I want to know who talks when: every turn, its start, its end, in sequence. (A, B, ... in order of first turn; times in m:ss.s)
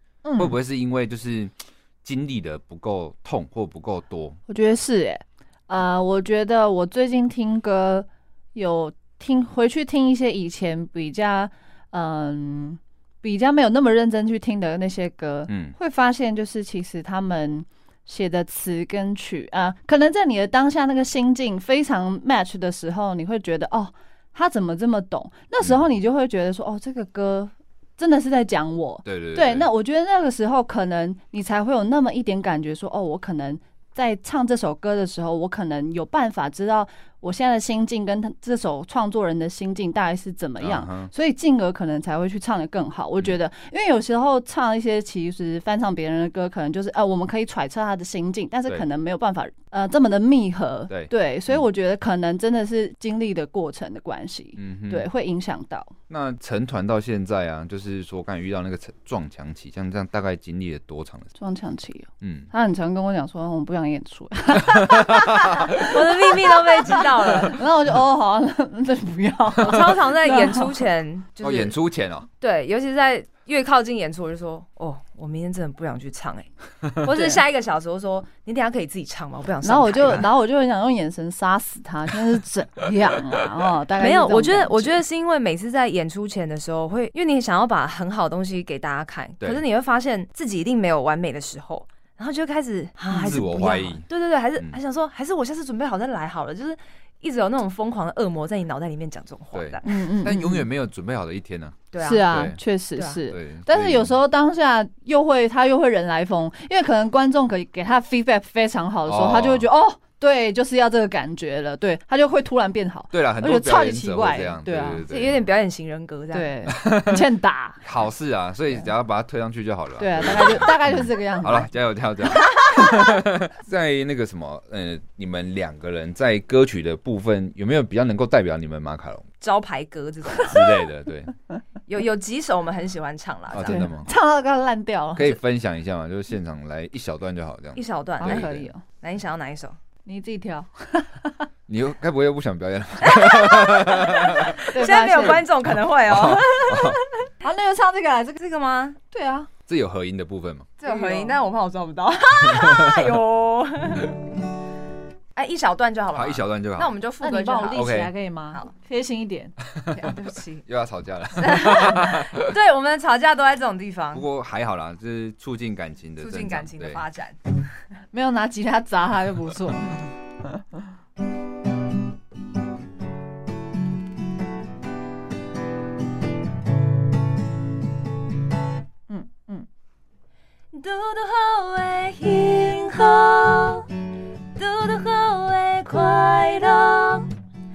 0:00.2-0:00.6 A
0:00.4-0:04.4 B
0:04.5-0:55.9 A
0:15.5-0:15.7 B
0:29.0-0:29.7 B
0:40.6-0:41.1 B
0:50.9-0:51.6 B
0:54.6-0:55.1 B
0:56.1-1:01.3 B
1:01.4-1:06.0 A
1:02.2-1:02.5 B
1:04.6-1:06.0 B
1:05.8-1:07.6 C
1:06.6-1:10.7 A
1:09.6-1:11.7 C
1:11.4-1:12.3 B
1:12.4-1:20.3 C
1:17.1-1:17.4 A
1:19.6-1:25.0 A
1:24.0-1:40.0 C
1:33.1-1:33.4 A
1:33.2-1:34.0 B
1:39.5-1:42.6 B
1:39.8-1:40.6 A
1:41.9-1:43.2 C
1:42.0-1:55.0 A
1:43.3-1:44.1 B
1:49.0-1:49.6 B
1:53.1-1:55.4 B
1:55.1-1:56.6 C
1:56.3-1:57.8 A
1:56.7-1:57.3 B
1:57.8-2:09.3 B
2:00.0-2:01.7 A
2:02.4-2:02.8 A
2:09.4-2:10.7 C
2:10.4-2:11.3 B
2:11.9-2:13.8 C
2:13.5-2:14.1 B
2:13.6-2:15.4 A
2:15.1-2:18.7 B
2:17.8-2:18.5 C
2:18.2-2:18.8 A
2:19.0-2:19.8 C
2:20.0-2:21.5 A
2:21.7-2:24.6 B
2:23.0-2:27.0 C
2:24.7-2:25.5 A
2:26.1-2:27.0 B
2:27.4-2:28.4 A
2:28.4-2:29.0 C
2:29.1-2:29.5 A
2:29.7-2:30.8 B
2:30.8-2:34.2 C
2:30.8-2:31.3 A
2:32.5-2:33.0 B
2:35.4-2:37.9 C
2:36.1-2:36.9 B
2:37.2-2:39.5 A
2:37.7-2:38.1 B
2:39.8-2:40.0 B
2:39.9-2:40.6 C
2:40.6-2:42.5 B
2:41.4-2:44.2 C
2:44.1-2:47.0 B
2:46.2-2:47.4 C
2:48.1-2:50.8 A
2:59.1-2:59.7 A
3:00.7-3:03.9 C
3:04.6-3:07.3 C